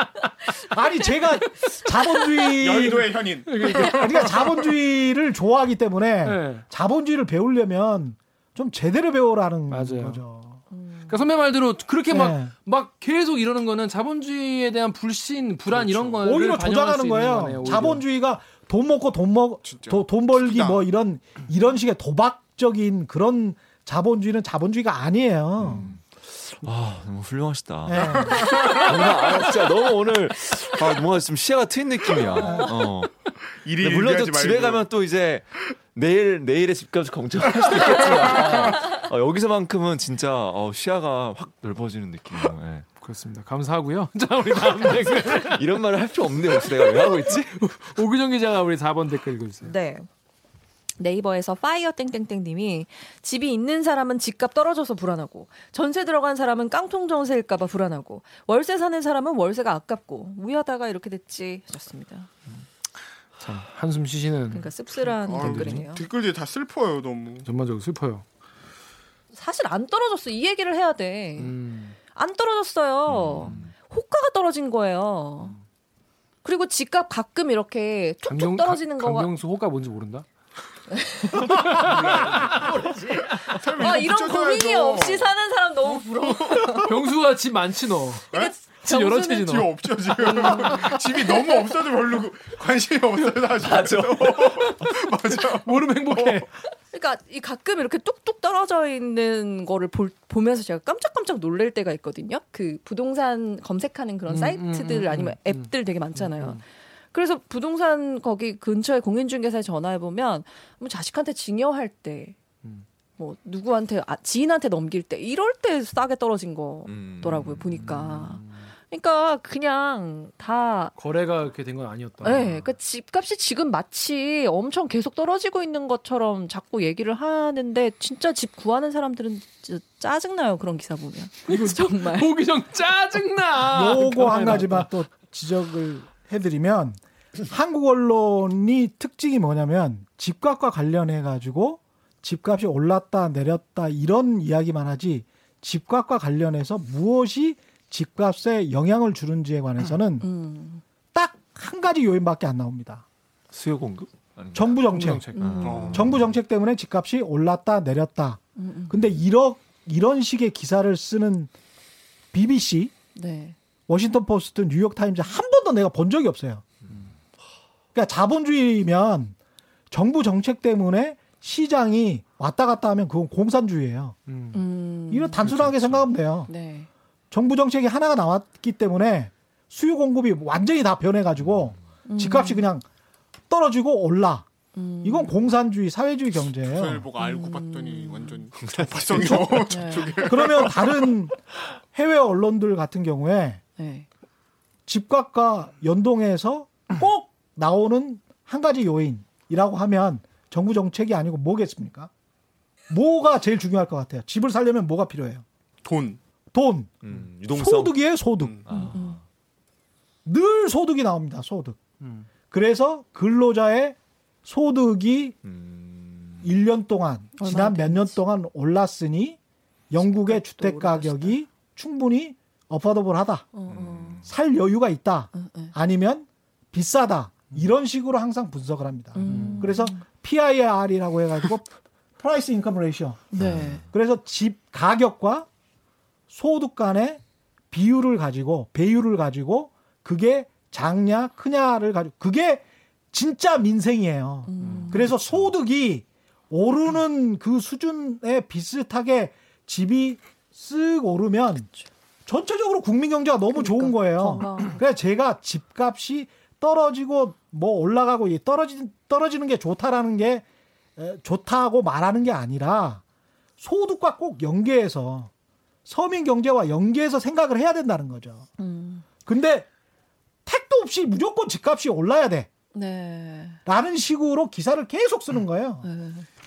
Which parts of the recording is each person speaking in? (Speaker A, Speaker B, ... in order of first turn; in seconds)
Speaker A: 0.7-3.1, 3.8-10.6, 12.1-12.5, 16.2-25.9, 27.8-28.5, 32.4-32.7, 133.7-150.3, 151.1-153.0, 154.5-155.3, 155.9-161.5, 162.3-162.9, 163.9-166.6, 167.9-169.3, 169.9-174.2, 175.1-176.5, 177.3-182.8, 183.5-184.5, 185.0-187.1, 189.2-189.7, 190.2-191.4, 191.9-193.6, 194.9-202.1, 202.9-205.4, 206.5-207.0, 207.5-208.6, 210.2-211.8, 212.5-215.4, 216.4-219.4, 219.9-223.6, 224.2-235.5, 236.3-251.7, 252.2-260.4, 261.0-263.0, 263.6-265.3, 265.9-268.5, 269.2-269.7, 270.4-272.5, 273.6-275.9
Speaker B: 2.5-4.7, 15.7-16.2, 19.6-20.8, 28.2-29.0, 33.6-34.9, 37.6-38.5, 65.2-67.5, 81.8-82.7, 83.4-85.3, 86.2-86.9, 89.4-96.4, 155.6-156.0, 186.6-191.1, 205.8-206.2, 208.4-208.7
Speaker C: 3.5-4.3, 6.2-6.6, 9.7-10.2, 11.1-18.0, 43.0-45.6, 46.7-49.7, 63.4-65.9, 67.4-68.2, 71.4-72.0, 78.2-80.2, 81.3-83.3, 86.8-88.3, 88.8-89.7, 90.3-90.9, 95.6-96.6, 104.3-106.6, 118.4-118.7, 121.0-122.4, 131.5-134.9, 154.9-155.9, 174.3-174.6, 212.0-212.3, 229.2-229.7, 244.6-245.4
Speaker D: 10.7-11.2, 49.6-50.1, 51.0-62.3, 64.5-66.0, 69.3-71.6, 72.1-75.5, 76.4-79.3, 80.9-82.0, 82.5-86.9, 88.3-89.6, 90.2-90.8, 96.9-112.4, 113.2-120.9, 122.2-132.3, 150.2-150.8, 155.3-155.9, 158.6-159.0, 163.1-163.6, 174.5-175.5, 176.5-176.9, 182.1-182.7, 184.7-185.4, 187.2-188.4, 189.6-190.6, 193.8-194.1, 208.7-209.2, 217.4-218.2, 220.0-221.3, 223.5-224.2, 225.3-225.7, 229.1-230.0, 233.3-233.8, 244.4-245.1, 253.5-254.8, 268.6-269.0, 272.7-273.6, 275.8-276.2
Speaker E: 25.6-42.9, 45.4-47.6, 73.1-73.7, 93.6-94.7, 116.9-118.3, 122.2-122.7, 153.5-154.8, 155.4-156.2, 175.4-176.0, 188.6-189.7, 207.0-207.9, 208.6-209.2, 215.4-216.4, 223.7-224.3, 233.4-233.8